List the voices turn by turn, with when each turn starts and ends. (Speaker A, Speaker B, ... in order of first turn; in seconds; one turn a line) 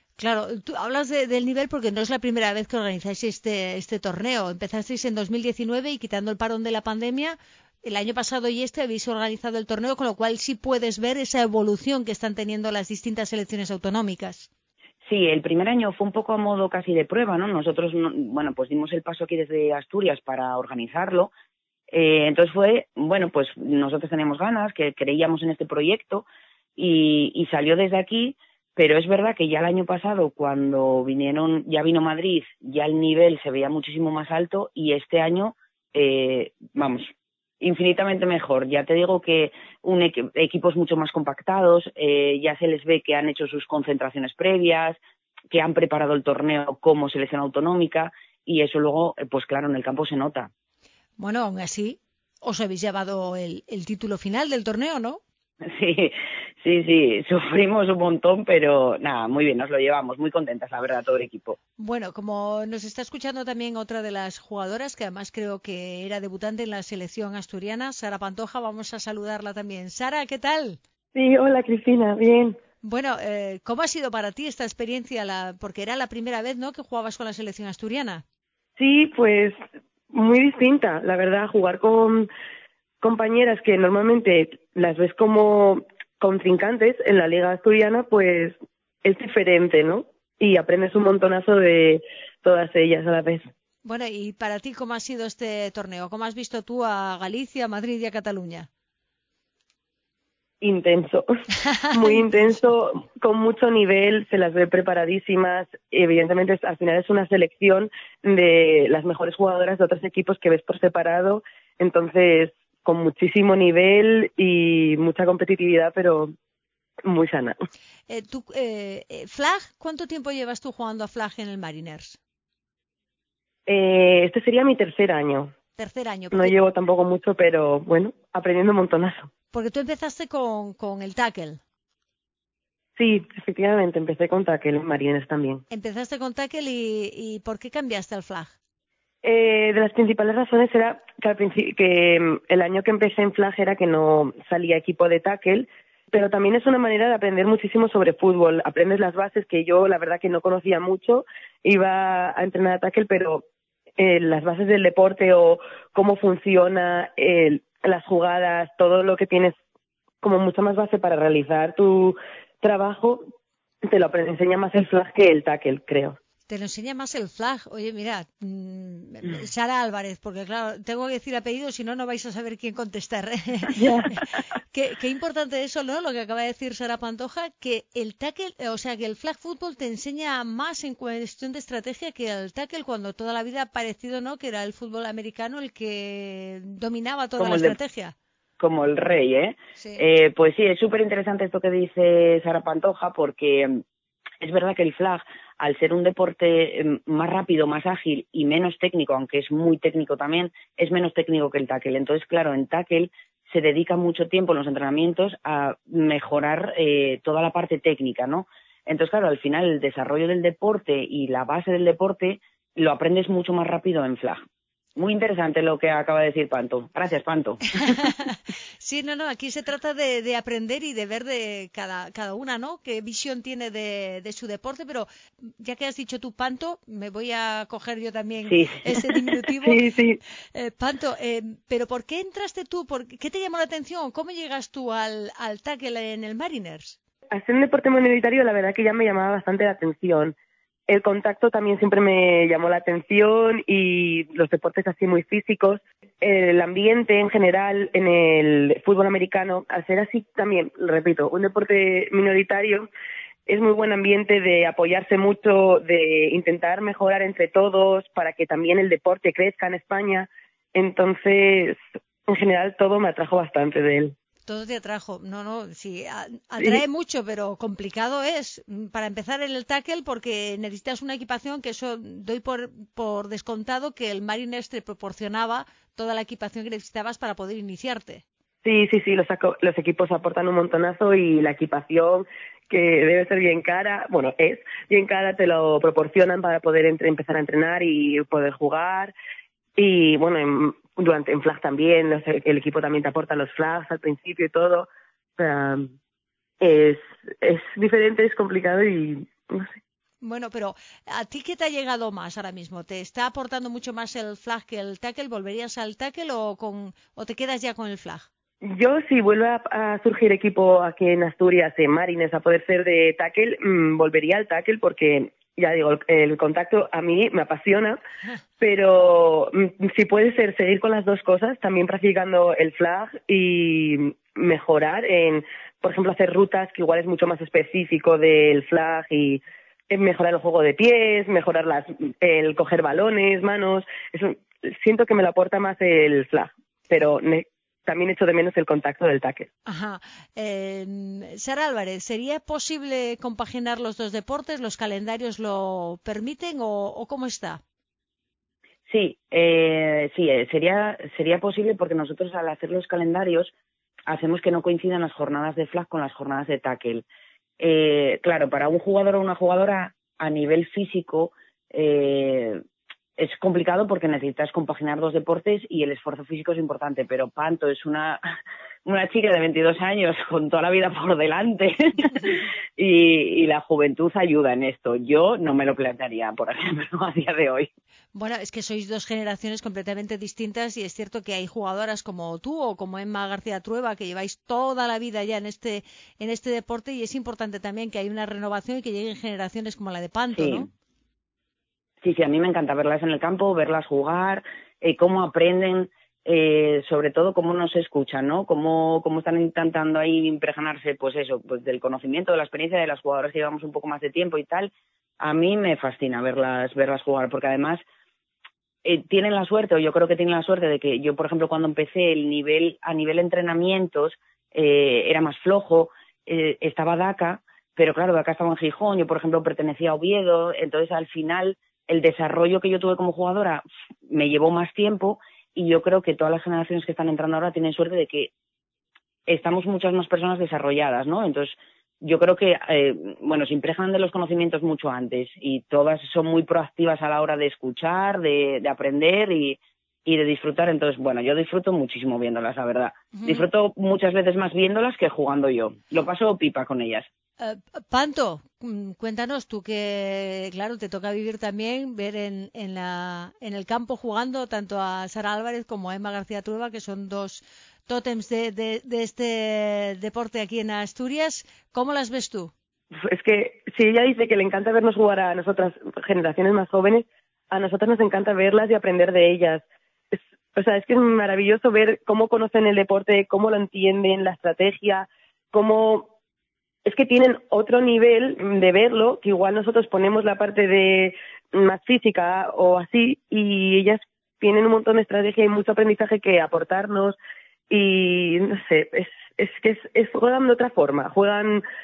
Speaker A: 0.2-14.5
Speaker B: 15.1-21.3
Speaker B: 21.9-26.2
Speaker B: 26.8-45.0
Speaker B: 45.5-50.5
Speaker A: 51.2-55.2
Speaker B: 55.7-61.6
Speaker A: 61.8-70.8
Speaker C: 71.1-72.6
Speaker A: 72.8-78.2
Speaker C: 78.8-79.6
Speaker C: 80.1-82.3
Speaker C: 83.0-88.5
Speaker C: 89.0-93.5
Speaker A: 93.8-98.7
Speaker C: 100.6-101.3
Speaker C: 101.9-116.3
Speaker C: 117.1-117.6
Speaker A: 118.1-122.2
Speaker C: 123.7-125.5
Speaker A: 125.8-126.6
Speaker C: 126.3-129.3
Speaker A: 129.5-131.6
Speaker C: 133.0-135.6
Speaker A: 135.7-138.5
Speaker C: 139.2-153.4
Speaker C: 154.0-159.6
Speaker C: 160.2-163.3
Speaker C: 163.8-166.2
Speaker A: 166.5-173.8
Speaker C: 173.7-174.1
Speaker A: 174.7-188.1
Speaker B: 187.4-187.8
Speaker B: 188.6-193.8
Speaker A: 189.8-190.0
Speaker B: 194.4-214.4
Speaker B: 215.0-217.6
Speaker A: 217.8-225.1
Speaker A: 225.6-229.8
Speaker B: 228.5-228.8
Speaker C: 229.6-230.2
Speaker A: 230.5-237.0
Speaker C: 237.3-240.3
Speaker C: 240.9-252.9
Speaker C: 253.5-264.1
Speaker A: 264.5-278.2
Speaker C: 278.6-289.1
Speaker C: 289.8-295.9
Speaker C: 296.6-299.7
Speaker A: 300.2-308.3
Speaker C: 308.6-318.0
Speaker C: 318.6-339.5
Speaker A: 339.7-347.6
Speaker B: 348.9-353.5
Speaker B: 354.1-357.1
Speaker B: 357.6-362.6
Speaker B: 363.2-368.2
Speaker B: 368.9-377.7
Speaker A: 378.1-390.7
Speaker B: 390.3-390.7
Speaker B: 392.0-407.8
Speaker B: 408.9-428.3
Speaker B: 429.3-447.1
Speaker A: 443.1-443.4
Speaker A: 447.4-462.5
Speaker C: 463.0-469.6
Speaker C: 470.6-476.1
Speaker C: 476.9-487.2
Speaker C: 487.7-491.6